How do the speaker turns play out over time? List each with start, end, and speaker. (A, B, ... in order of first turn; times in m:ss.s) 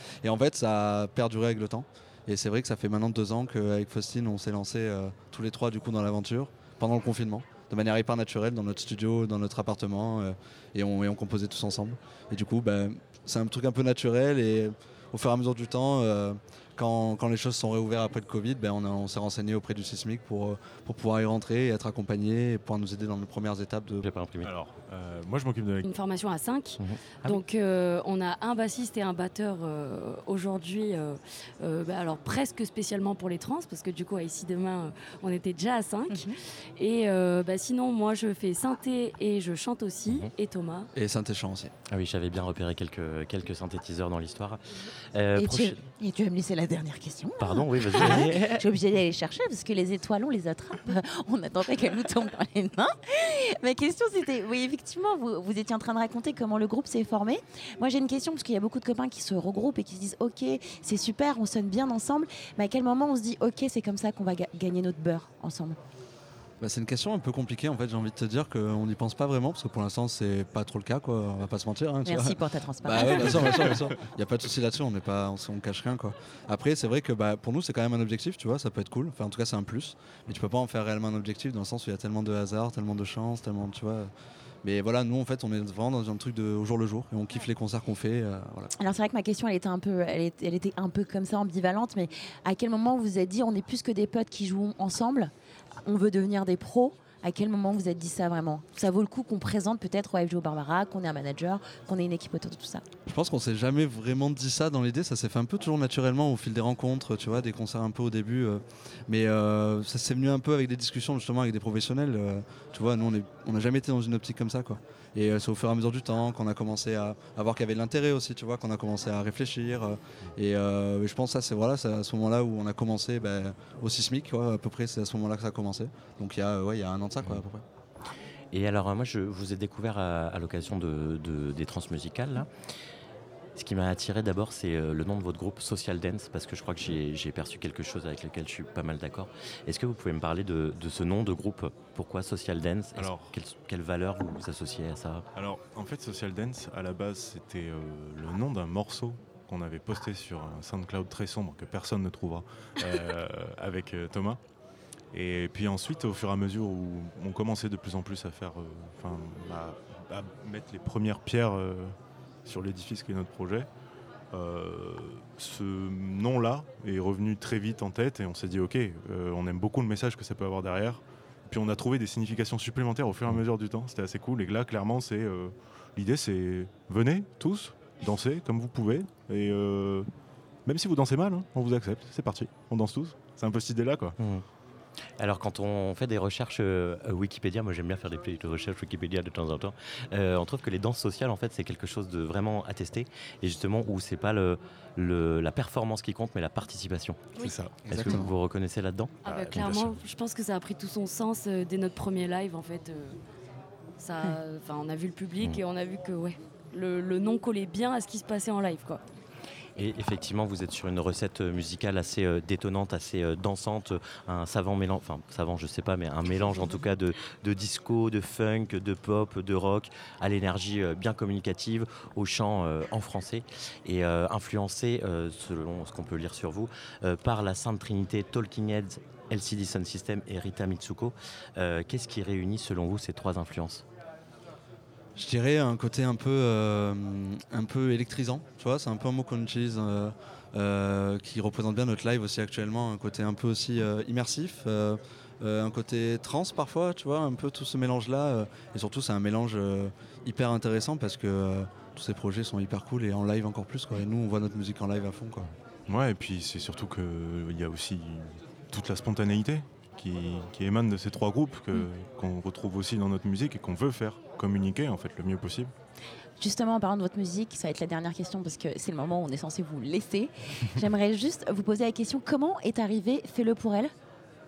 0:00.2-0:24.1 A
0:24.0-0:24.5 B
0:24.4-0:25.9 C
0:25.8-0:40.9 D
0:26.8-0:27.4 B
0:40.9-0:41.7 A
0:41.9-0:45.9 B
0:45.4-1:05.8 E
0:47.4-0:48.6 B
1:06.6-1:24.1 A
1:12.0-1:13.9 E
1:24.6-1:28.7 A
1:28.8-1:35.3 E
1:35.8-1:42.8 E
1:43.1-2:07.6 A
2:08.5-2:12.5 B
2:13.6-2:25.2 B
2:23.0-2:23.3 C
2:25.4-2:34.4 C
2:35.1-2:41.9 C
2:42.4-2:43.7 C
2:44.3-3:00.1 C
3:00.6-3:04.1 C
3:04.2-3:04.4 B
3:05.2-3:19.9 B
3:17.9-3:18.3 A
3:19.2-3:23.2 D
3:24.0-3:29.0 D
3:29.8-3:53.8 B
3:55.2-4:15.5 A
4:15.9-4:25.7 C
4:26.4-4:33.9 E